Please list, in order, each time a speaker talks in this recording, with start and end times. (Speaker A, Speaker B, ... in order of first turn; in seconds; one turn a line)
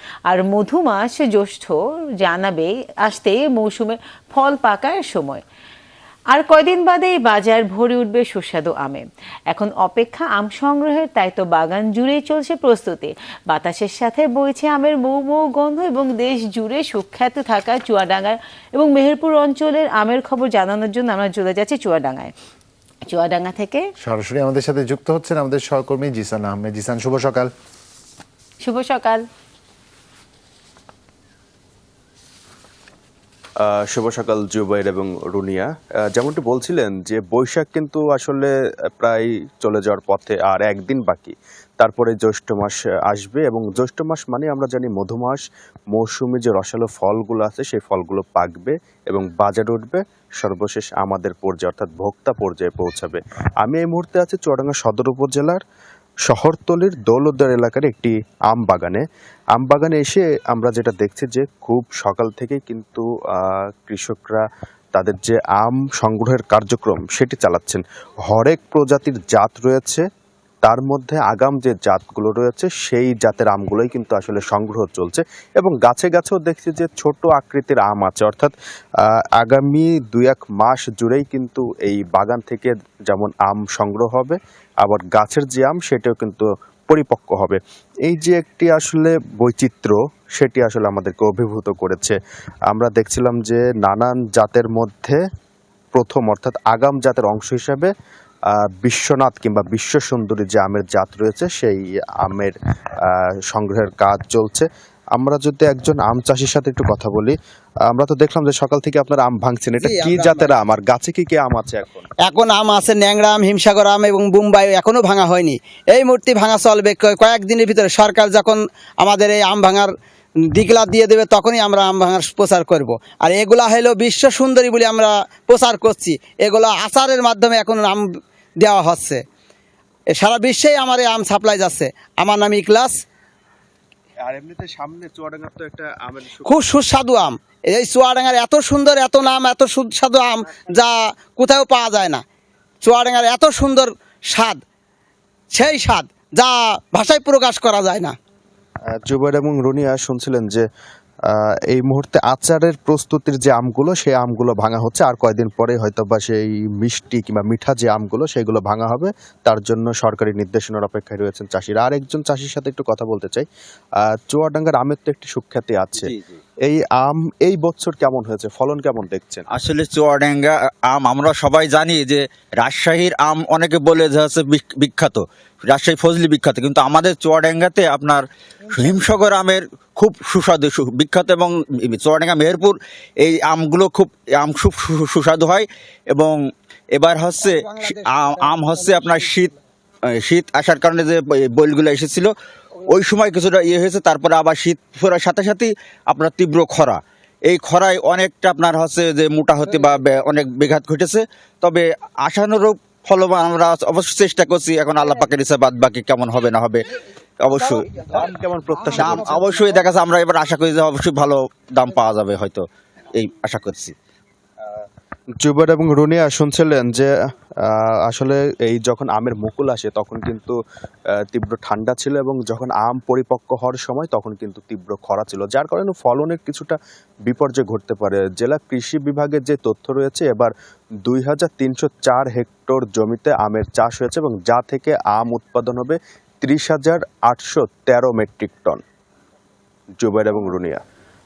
Speaker A: 0.2-5.4
Speaker A: 6.3-22.3
Speaker A: 23.1-23.9
Speaker B: 24.0-27.5
Speaker A: 28.6-29.2
Speaker C: 33.6-55.6
Speaker C: 56.3-70.0
Speaker C: 70.6-78.5
Speaker C: 79.3-95.2
Speaker C: 95.9-97.9
Speaker C: 98.5-107.3
Speaker C: 107.9-112.1
Speaker D: 109.7-110.5
Speaker D: 112.2-119.9
Speaker D: 120.5-128.1
Speaker D: 128.6-129.2
Speaker D: 130.1-132.9
Speaker C: 134.2-136.6
Speaker D: 136.4-142.2
Speaker D: 142.8-144.6
Speaker D: 145.5-148.2
Speaker C: 148.9-150.6
Speaker C: 151.3-163.5
Speaker C: 164.0-166.1
Speaker E: 166.0-166.4
Speaker C: 166.7-169.4
Speaker E: 169.5-186.3
Speaker E: 186.9-189.5
Speaker D: 187.4-189.5
Speaker E: 190.1-192.3
Speaker E: 192.9-206.8
Speaker E: 207.4-208.1
Speaker C: 208.1-209.6
Speaker E: 208.9-213.9
Speaker C: 215.4-220.6
Speaker C: 221.2-230.5
Speaker C: 231.1-238.8
Speaker C: 240.0-240.8